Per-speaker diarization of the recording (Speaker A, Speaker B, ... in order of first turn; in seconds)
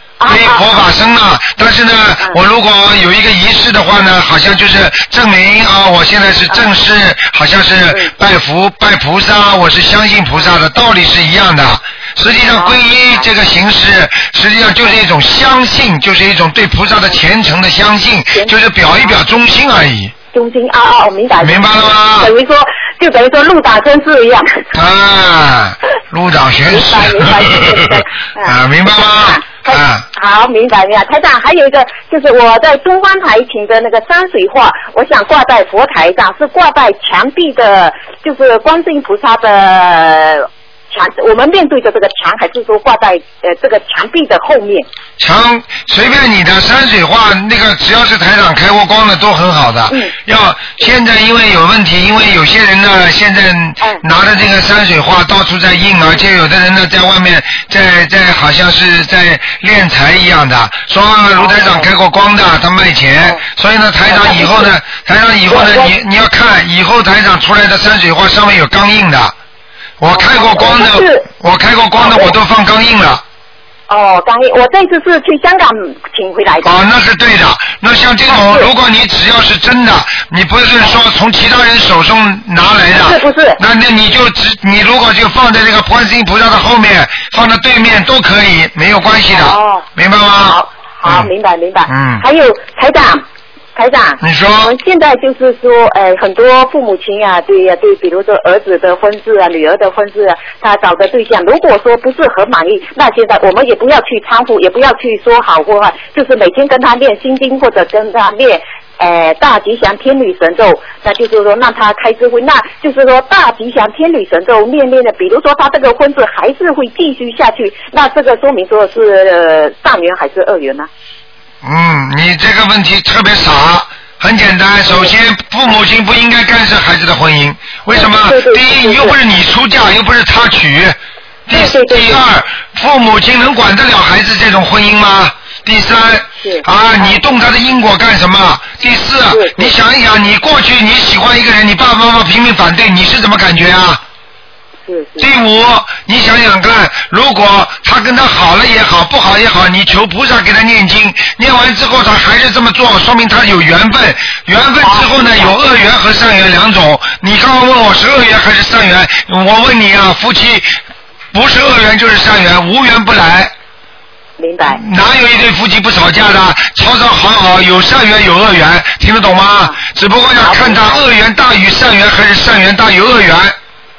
Speaker A: 0.2-0.9, 12.4-13.3, 18.3-19.2, 20.3-24.6, 26.7-44.9, 53.8-54.0, 61.3-61.9, 64.0-64.7, 65.5-65.9, 70.1-71.2, 72.0-72.3, 73.9-76.7, 78.3-78.7, 82.9-83.6, 89.3-89.9, 90.4-93.2, 93.8-120.9, 124.9-125.1, 127.9-129.2, 131.5-132.2, 136.4-137.2, 139.3-139.7, 144.8-145.3, 154.8-155.6, 164.4-164.8, 170.3-171.0
Speaker B: 0.3-20.1, 21.4-22.3, 24.7-30.0, 45.2-69.3, 70.0-73.2, 76.6-91.3, 91.9-92.2, 94.2-94.7, 121.6-131.0, 131.5-144.0, 145.2-160.7, 161.3-163.5, 164.7-173.5